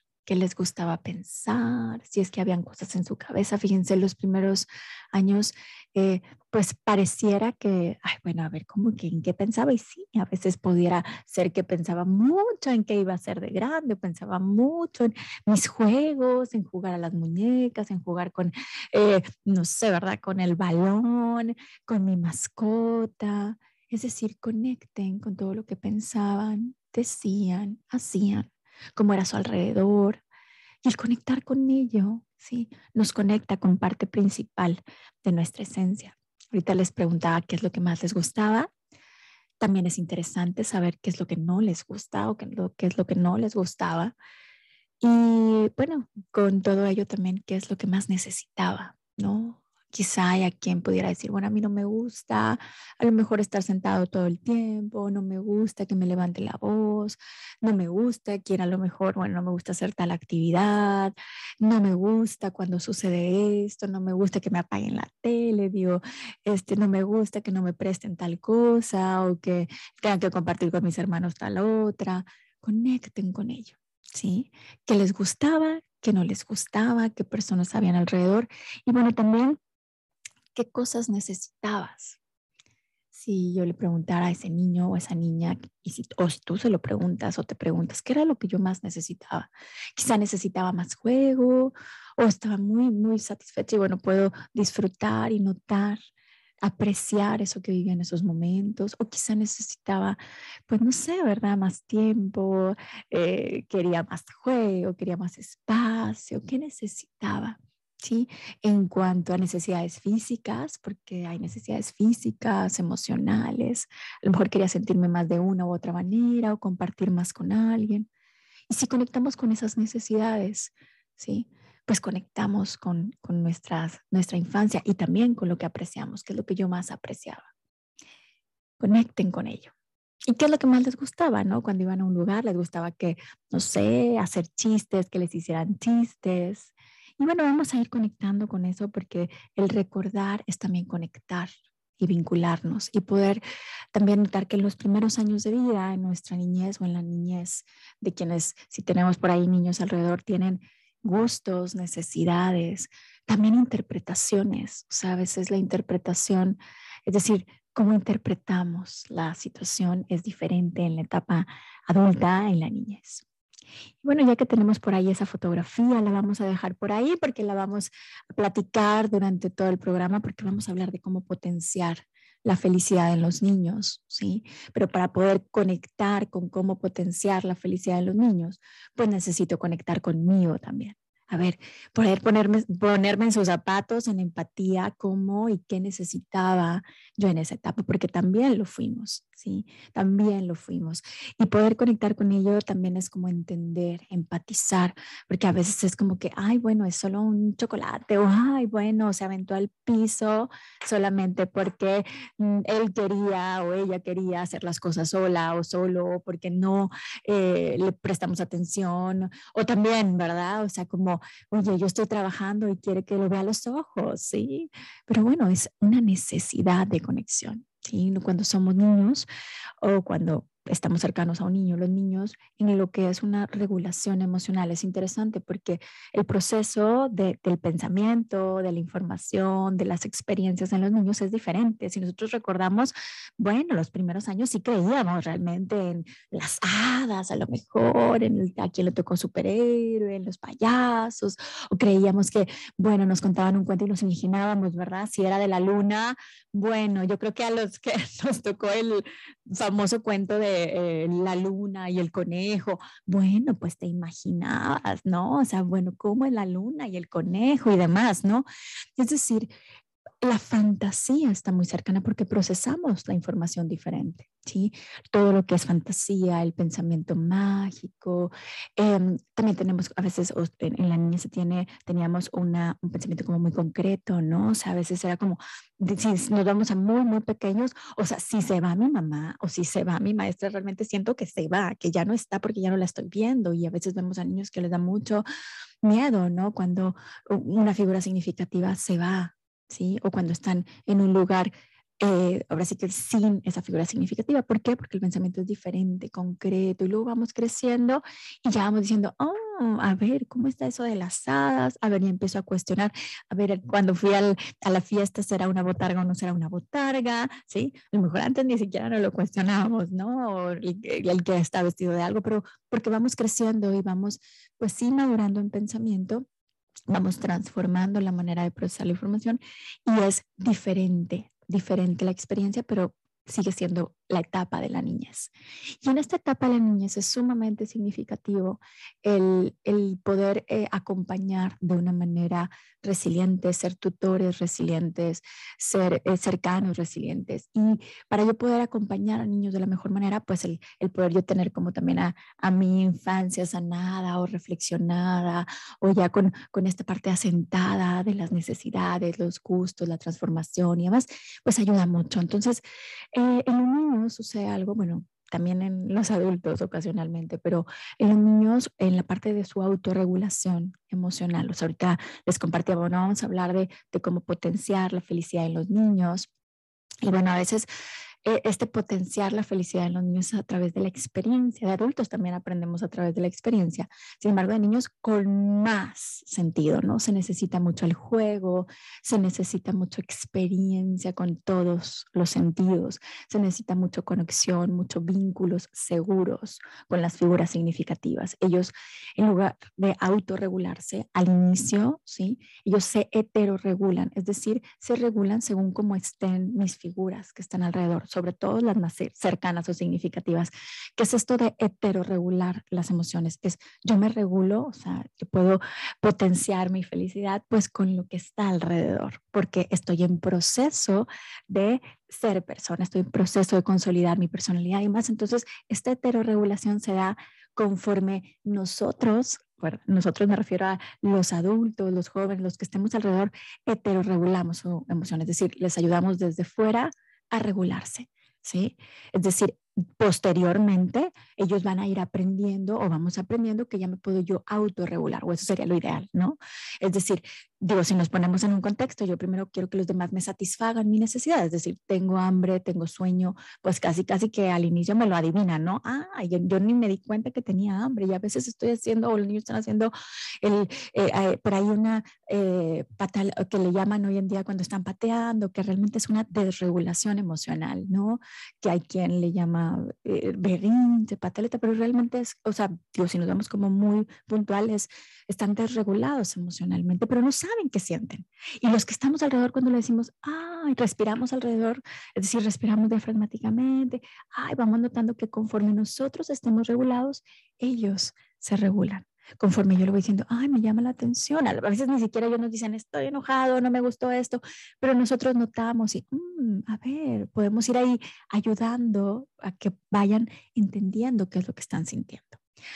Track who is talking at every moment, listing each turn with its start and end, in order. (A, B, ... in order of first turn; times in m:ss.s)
0:00.3-0:30.2 A
0:30.8-0:38.7 A
0:39.6-0:44.2 A
0:45.0-1:19.6 A
1:20.6-1:22.2 A
1:23.1-1:36.0 A
1:36.6-1:58.1 A
1:58.7-2:07.5 A
2:08.8-2:09.7 A
2:10.3-2:23.4 A
2:23.9-2:43.2 A
2:44.0-3:39.3 A
3:39.8-4:19.5 A
4:20.2-4:45.2 A
4:45.8-5:16.3 A
5:16.9-5:25.3 A
5:25.8-5:52.6 A
5:53.1-6:06.3 A
6:07.0-6:07.7 A
6:08.2-8:12.4 A